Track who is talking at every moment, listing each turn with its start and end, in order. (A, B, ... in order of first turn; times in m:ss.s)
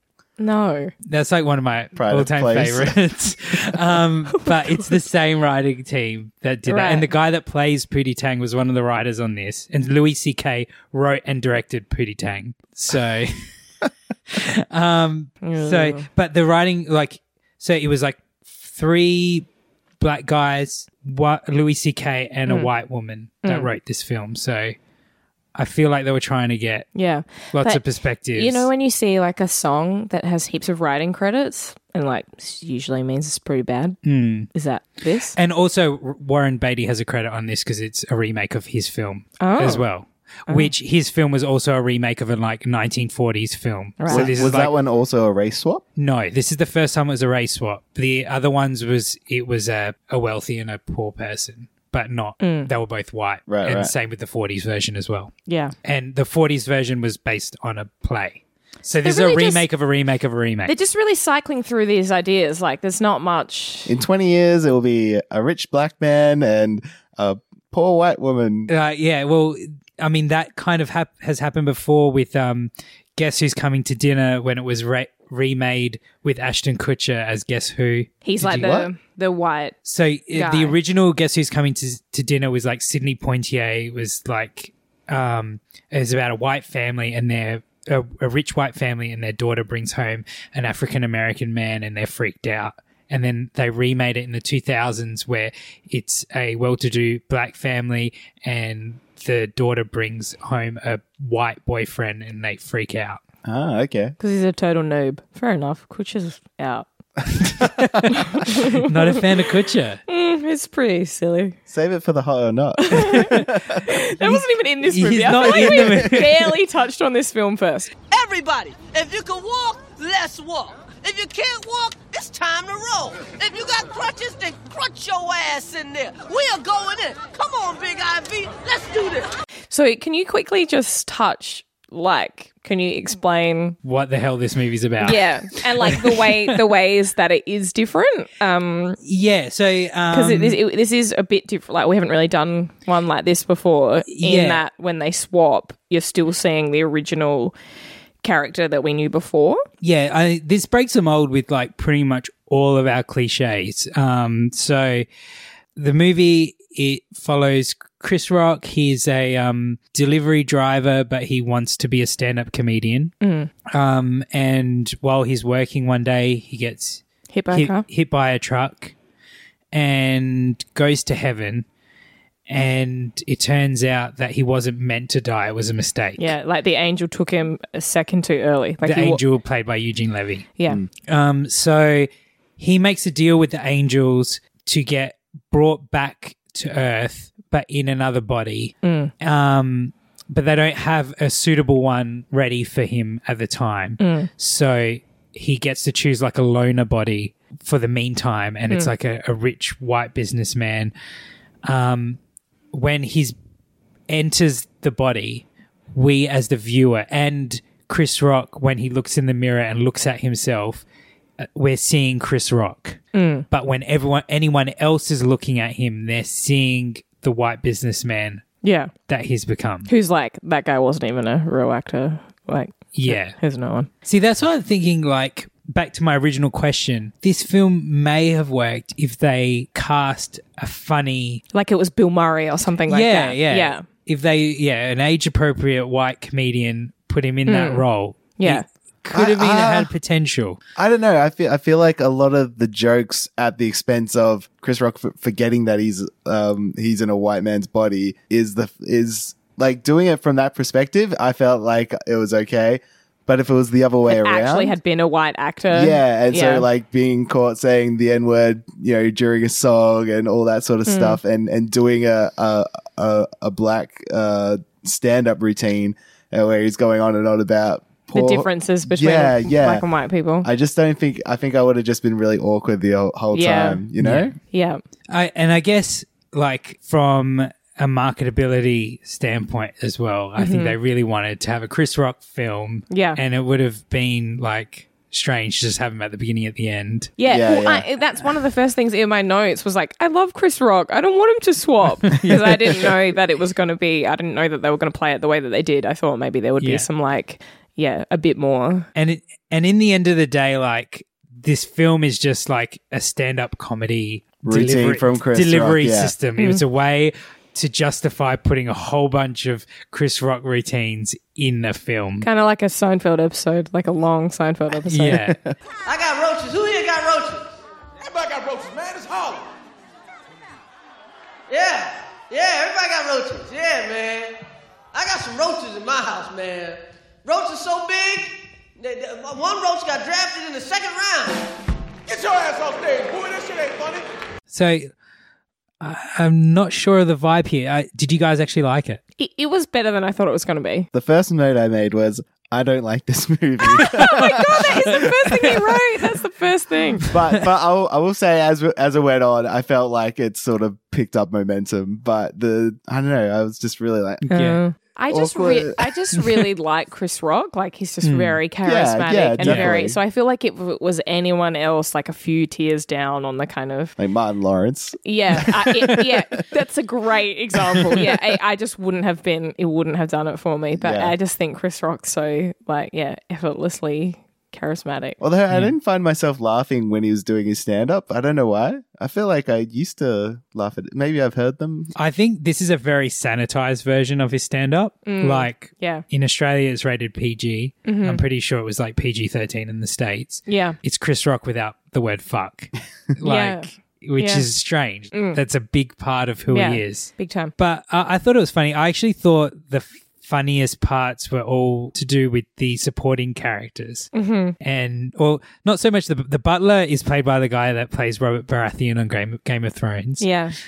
0:00.4-0:00.9 A
0:01.1-0:13.5 B
0:02.0-0:03.0 C
0:04.4-0:04.9 A
0:06.7-0:07.1 A
0:14.3-0:19.5 B
0:15.4-0:16.1 A
0:20.0-0:24.8 B
0:23.4-0:23.7 A
0:25.6-0:26.9 B
0:27.0-0:34.0 A
0:27.5-0:28.7 B
0:34.0-0:34.5 B
0:34.5-0:35.4 A
0:35.3-0:44.7 B
0:39.4-0:39.8 A
0:44.0-0:44.3 A
0:44.1-0:45.8 C
0:46.0-0:55.3 B
0:52.4-0:52.7 A
0:53.5-0:53.9 C
0:55.5-0:55.7 A
0:55.8-1:00.7 B
0:59.0-0:59.6 A
1:00.7-1:03.9 A
1:03.9-1:08.7 C
1:08.7-1:18.7 B
1:18.2-1:19.8 A
1:18.4-1:18.9 C
1:19.8-1:43.2 B
1:20.3-1:20.8 A
1:43.4-1:44.2 C
1:44.2-1:46.9 A
1:47.5-1:50.0 B
1:48.1-1:48.9 A
1:50.1-1:51.6 A
1:51.7-1:53.8 C
1:52.8-1:57.9 A
1:53.0-1:53.5 B
1:54.2-1:56.6 B
1:58.1-2:09.4 D
2:09.7-2:13.8 A
2:13.8-2:16.6 B
2:15.0-2:19.0 A
2:19.0-2:20.6 B
2:20.1-2:27.6 A
2:24.1-2:24.6 B
2:28.2-2:29.6 A
2:29.8-2:35.1 B
2:35.8-2:43.1 B
2:43.2-2:43.5 A
2:43.7-2:48.9 B
2:47.3-2:47.8 A
2:49.7-2:51.7 B
2:52.5-2:56.3 B
2:56.2-2:59.2 A
2:58.8-3:20.9 B
3:08.8-3:09.1 A
3:14.0-3:14.3 A
3:21.6-3:22.2 B
3:22.7-3:23.4 B
3:24.1-3:30.8 B
3:31.4-3:38.4 B
3:33.1-3:33.5 A
3:38.6-3:38.9 A
3:39.1-3:39.9 B
3:39.9-3:43.9 A
3:42.9-3:43.4 B
3:44.0-3:51.4 B
3:51.5-3:53.8 A
3:52.9-4:00.6 B
3:57.5-3:57.8 A
3:58.4-3:58.6 A
3:59.1-3:59.9 C
4:00.8-4:14.8 C
4:14.1-4:16.7 A
4:15.7-4:29.8 C
4:20.9-4:21.2 A
4:28.1-4:30.5 A
4:30.4-4:34.3 C
4:33.3-4:33.8 A
4:34.0-4:34.4 B
4:34.5-4:34.8 A
4:35.1-4:47.1 B
4:40.4-4:40.8 A
4:42.9-4:43.2 A
4:47.2-4:58.9 A
4:47.3-4:47.9 C
4:52.1-4:52.7 B
4:56.6-4:56.9 B
4:59.0-5:12.3 B
5:04.4-5:06.1 C
5:06.4-5:06.6 A
5:12.2-5:15.2 A
5:14.9-5:15.4 B
5:15.3-5:15.5 C
5:15.9-5:17.5 D
5:18.0-5:19.5 E
5:21.5-5:24.4 D
5:24.9-5:31.4 D
5:32.1-5:34.0 E
5:34.5-5:34.9 B
5:35.8-5:39.0 B
5:39.2-5:40.9 A
5:40.9-5:45.8 C
5:43.6-5:47.1 A
5:47.1-5:54.3 C
5:54.3-5:54.6 B
5:54.3-6:04.0 A
5:55.1-5:55.9 C
5:58.0-5:58.4 B
5:58.6-6:00.0 C
5:59.4-5:59.7 B
6:04.0-6:06.0 C
6:05.0-6:15.2 A
6:10.8-6:11.2 C
6:15.2-6:21.9 C
6:22.0-6:50.3 B
6:25.1-6:26.0 A
6:27.8-6:28.2 A
6:30.5-6:30.8 A
6:33.2-6:33.7 A
6:34.2-6:34.5 A
6:35.1-6:35.4 A
6:36.5-6:37.5 A
6:44.1-6:44.6 A
6:50.2-6:50.6 A